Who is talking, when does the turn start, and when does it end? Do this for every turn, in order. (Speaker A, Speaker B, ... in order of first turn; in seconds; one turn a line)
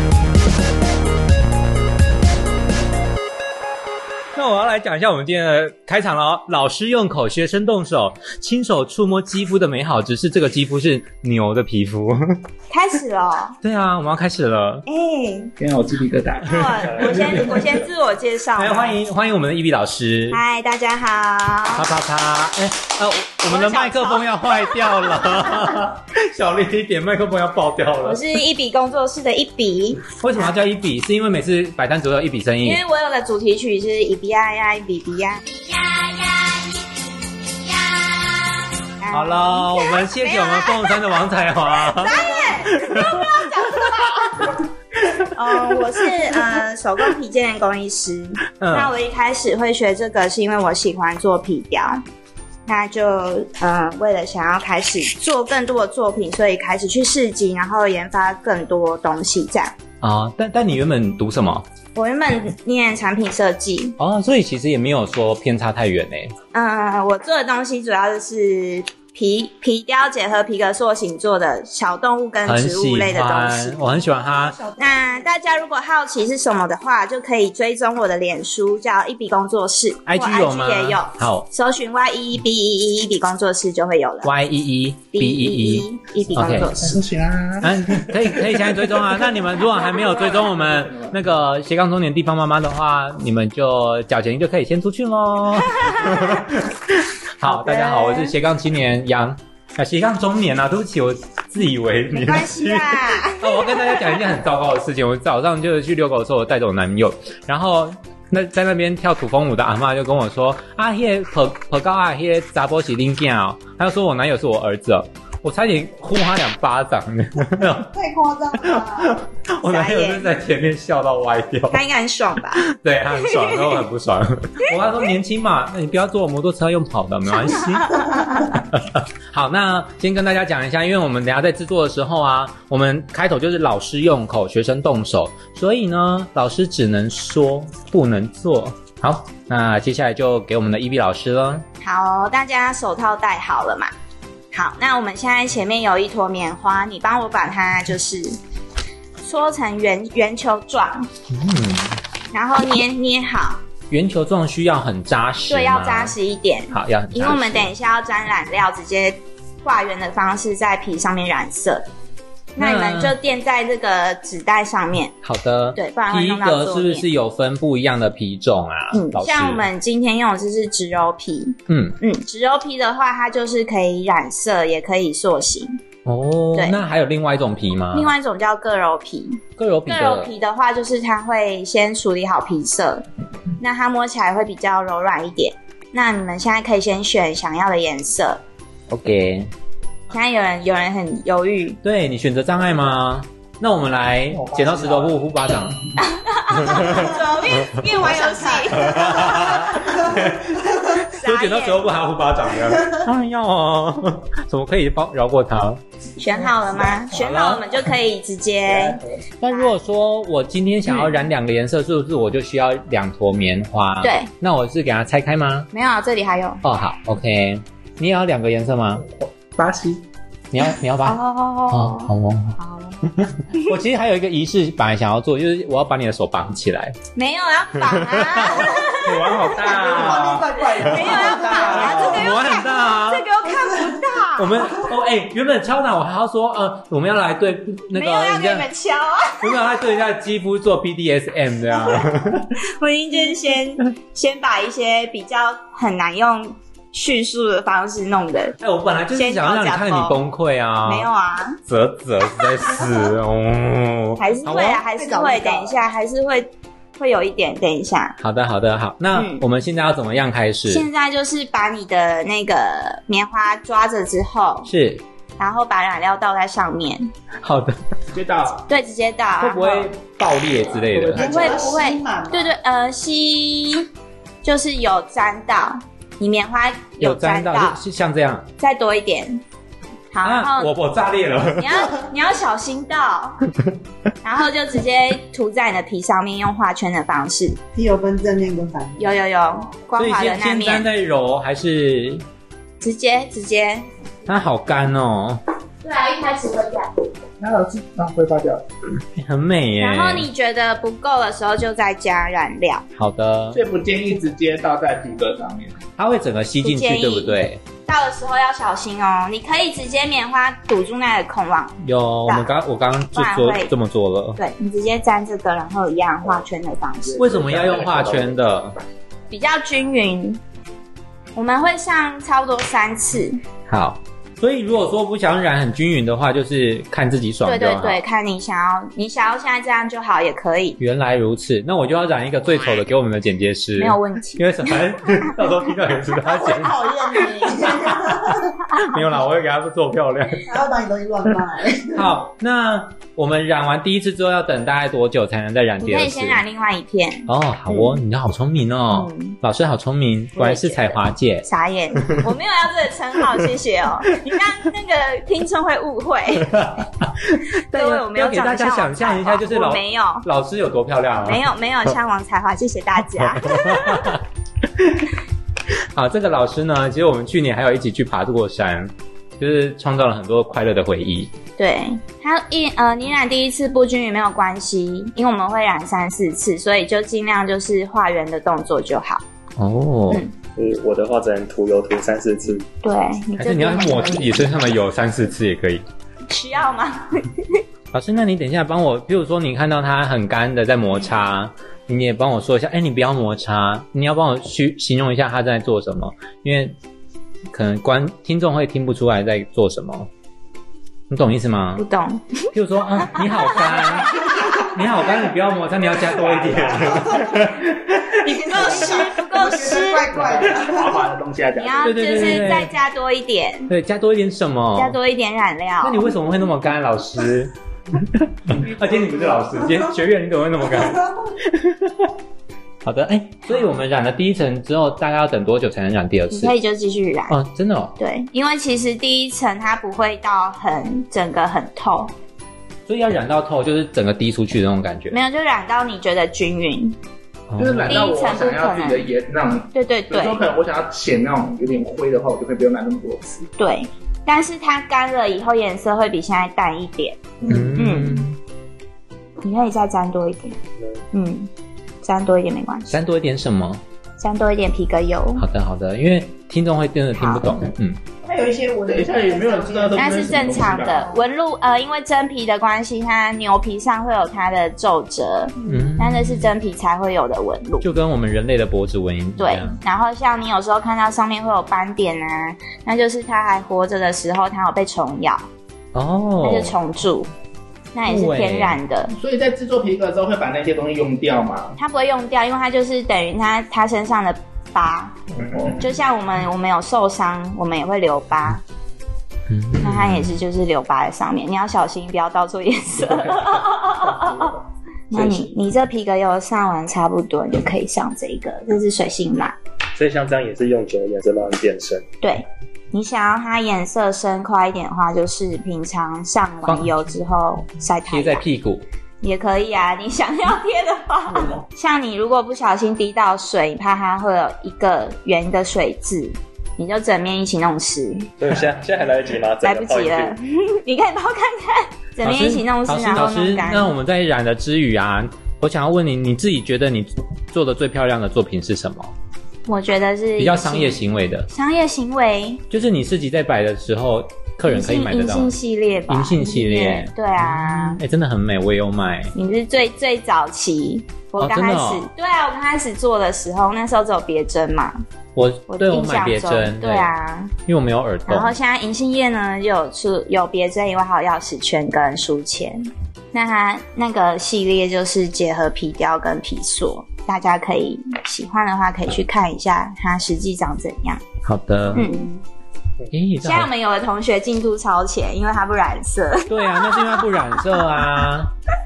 Speaker A: 4.3-12.2
Speaker B: 12.7-13.6
Speaker A: 13.6-14.8
Speaker B: 14.9-15.5
Speaker C: 15.6-17.9
Speaker B: 16.4-19.0
Speaker A: 16.5-17.4
Speaker D: 16.9-17.2
Speaker A: 18.6-20.4
Speaker B: 20.3-21.9
Speaker A: 21.7-28.2
Speaker B: 23.5-25.6
Speaker B: 28.0-30.5
Speaker A: 30.2-32.8
Speaker B: 32.6-38.3
Speaker B: 39.0-41.0
Speaker A: 39.1-43.5
Speaker B: 41.9-44.6
Speaker B: 45.2-52.0
Speaker A: 48.6-48.9
Speaker B: 52.7-59.8
Speaker A: 60.0-61.6
Speaker B: 62.0-64.0
Speaker A: 64.0-66.3
Speaker B: 66.5-73.8
Speaker A: 72.5-74.6
Speaker E: 74.2-75.3
Speaker B: 74.8-84.3
Speaker A: 80.1-81.5
Speaker A: 84.2-86.8
Speaker B: 85.1-87.0
Speaker C: 86.4-91.2
Speaker A: 87.6-117.9
Speaker B: 95.8-96.1
Speaker B: 97.4-98.3
Speaker B: 102.1-104.2
Speaker E: 117.9-119.2
Speaker A: 118.6-121.8
Speaker B: 119.6-120.3
Speaker B: 121.7-122.7
Speaker A: 122.6-141.7
Speaker B: 127.5-128.6
Speaker B: 141.8-143.9
Speaker B: 144.5-148.4
Speaker B: 149.2-151.1
Speaker A: 151.3-152.0
Speaker B: 152.3-153.6
Speaker A: 153.9-156.2
Speaker B: 155.5-161.9
Speaker A: 156.7-157.7
Speaker B: 162.6-165.2
Speaker A: 162.6-163.2
Speaker A: 165.2-169.7
Speaker B: 165.8-167.1
Speaker B: 168.9-175.8
Speaker A: 171.7-172.0
Speaker A: 176.1-178.1
Speaker B: 177.9-183.1
Speaker A: 179.6-180.3
Speaker B: 183.6-188.4
Speaker A: 188.9-189.5
Speaker B: 190.1-191.8
Speaker A: 191.8-195.9
Speaker C: 194.3-195.2
Speaker B: 196.0-199.9
Speaker A: 196.5-197.1
Speaker E: 198.3-198.7
Speaker A: 198.7-205.8
Speaker B: 201.0-201.9
Speaker B: 206.2-209.7
Speaker A: 207.1-207.6
Speaker C: 208.7-209.0
Speaker A: 209.4-215.7
Speaker B: 214.0-214.3
Speaker B: 215.7-216.6
Speaker A: 216.6-219.1
Speaker C: 219.1-220.0
Speaker A: 220.5-221.2
Speaker B: 221.1-223.7
Speaker A: 221.7-222.6
Speaker A: 223.1-227.0
Speaker B: 227.2-229.5
Speaker A: 228.0-233.2
Speaker E: 229.5-232.2
Speaker B: 230.7-234.8
Speaker C: 231.6-231.9
Speaker A: 234.4-238.7
Speaker B: 237.9-239.6
Speaker A: 239.4-242.5
Speaker B: 241.8-242.1
Speaker B: 242.6-248.6
Speaker A: 248.6-251.1
Speaker B: 249.2-250.2
Speaker B: 250.8-251.6
Speaker A: 251.7-254.8
Speaker B: 254.2-258.2
Speaker E: 254.9-255.8
Speaker A: 258.2-260.9
Speaker B: 259.1-259.4
Speaker B: 260.7-264.7
Speaker A: 264.6-265.0
Speaker B: 265.4-267.1
Speaker A: 267.4-267.8
Speaker C: 268.1-268.6
Speaker B: 268.7-269.9
Speaker A: 269.4-271.3
Speaker C: 270.8-271.8
Speaker E: 271.1-272.5
Speaker B: 271.1-273.9
Speaker B: 274.4-277.8
Speaker A: 277.0-278.5
Speaker B: 278.6-279.4
Speaker B: 280.1-280.7
Speaker A: 280.2-281.9
Speaker B: 281.6-283.5
Speaker B: 284.2-287.6
Speaker E: 287.7-289.2
Speaker B: 289.0-290.9
Speaker A: 289.9-292.2
Speaker B: 292.8-293.9
Speaker A: 294.2-295.4
Speaker B: 295.8-296.9
Speaker C: 297.4-298.7
Speaker A: 299.1-300.3
Speaker B: 299.8-302.9
Speaker A: 302.9-303.6
Speaker C: 303.5-305.8
Speaker A: 306.0-307.6
Speaker B: 306.6-312.5
Speaker A: 311.8-314.4
Speaker B: 313.1-313.7
Speaker B: 314.4-317.4
Speaker C: 317.0-318.4
Speaker A: 317.2-318.8
Speaker B: 319.3-320.4
Speaker B: 321.3-323.4
Speaker A: 323.7-328.0
Speaker B: 327.4-330.8
Speaker A: 330.8-337.1
Speaker B: 333.8-334.8
Speaker E: 336.3-338.6
Speaker A: 338.8-340.5
Speaker E: 340.4-342.1
Speaker A: 341.9-346.4
Speaker B: 345.8-348.0
Speaker A: 347.3-351.5
Speaker B: 348.9-349.4
Speaker B: 350.4-356.6
Speaker A: 356.4-361.4
Speaker B: 357.7-360.2
Speaker B: 361.2-364.1
Speaker A: 363.4-364.2
Speaker A: 365.9-371.3
Speaker B: 371.6-379.2
Speaker A: 379.6-380.2
Speaker D: 380.6-382.6
Speaker B: 382.8-384.4
Speaker A: 383.4-385.8
Speaker B: 386.3-387.6
Speaker A: 387.9-396.8
Speaker A: 397.5-400.1
Speaker A: 401.1-401.8
Speaker B: 401.8-402.5
Speaker A: 402.5-408.6
Speaker B: 403.2-404.6
Speaker C: 406.1-407.2
Speaker B: 408.2-410.2
Speaker E: 408.5-411.0
Speaker C: 410.1-411.9
Speaker B: 411.6-413.7
Speaker A: 411.8-412.7
Speaker A: 413.7-415.0
Speaker B: 414.8-416.1
Speaker A: 415.8-422.1
Speaker A: 422.8-426.5
Speaker B: 426.3-427.4
Speaker A: 427.3-427.9
Speaker B: 428.0-432.1
Speaker A: 432.9-435.2
Speaker B: 435.1-437.0
Speaker A: 437.5-438.0
Speaker C: 437.6-443.5
Speaker B: 437.9-439.1
Speaker B: 439.7-440.4
Speaker B: 443.6-447.2
Speaker A: 447.4-448.4
Speaker B: 447.8-448.2
Speaker B: 449.4-450.6
Speaker B: 451.1-451.5
Speaker B: 452.0-452.9
Speaker A: 452.9-453.8
Speaker B: 454.2-455.4
Speaker A: 455.4-458.0
Speaker B: 457.2-457.6
Speaker E: 458.2-461.2
Speaker C: 458.9-461.1
Speaker B: 459.9-467.9
Speaker A: 465.6-466.5
Speaker A: 467.8-469.8
Speaker B: 469.4-475.4
Speaker A: 475.9-476.8
Speaker B: 476.4-477.3
Speaker B: 477.9-479.1
Speaker A: 478.1-478.8
Speaker C: 479.1-481.8
Speaker B: 481.8-485.1
Speaker C: 485.3-485.9
Speaker B: 485.8-488.6
Speaker A: 489.5-490.4
Speaker B: 489.8-494.6
Speaker B: 495.1-499.6
Speaker D: 495.1-495.4
Speaker D: 499.9-502.1
Speaker B: 502.2-508.4
Speaker A: 506.6-506.9
Speaker A: 508.1-508.9
Speaker B: 509.2-518.3
Speaker D: 518.4-520.4
Speaker B: 519.6-523.9
Speaker A: 522.2-529.1
Speaker B: 529.7-532.6
Speaker A: 530.4-531.5
Speaker A: 532.7-535.5
Speaker B: 534.7-538.0
Speaker A: 536.1-539.3
Speaker B: 539.4-545.0
Speaker A: 541.4-542.0
Speaker A: 545.4-547.1
Speaker B: 545.7-547.5
Speaker A: 547.6-548.5
Speaker B: 548.3-561.2
Speaker A: 561.4-562.0
Speaker B: 561.9-562.3
Speaker E: 562.0-562.3
Speaker A: 563.1-563.7
Speaker B: 563.4-568.0
Speaker A: 566.5-568.5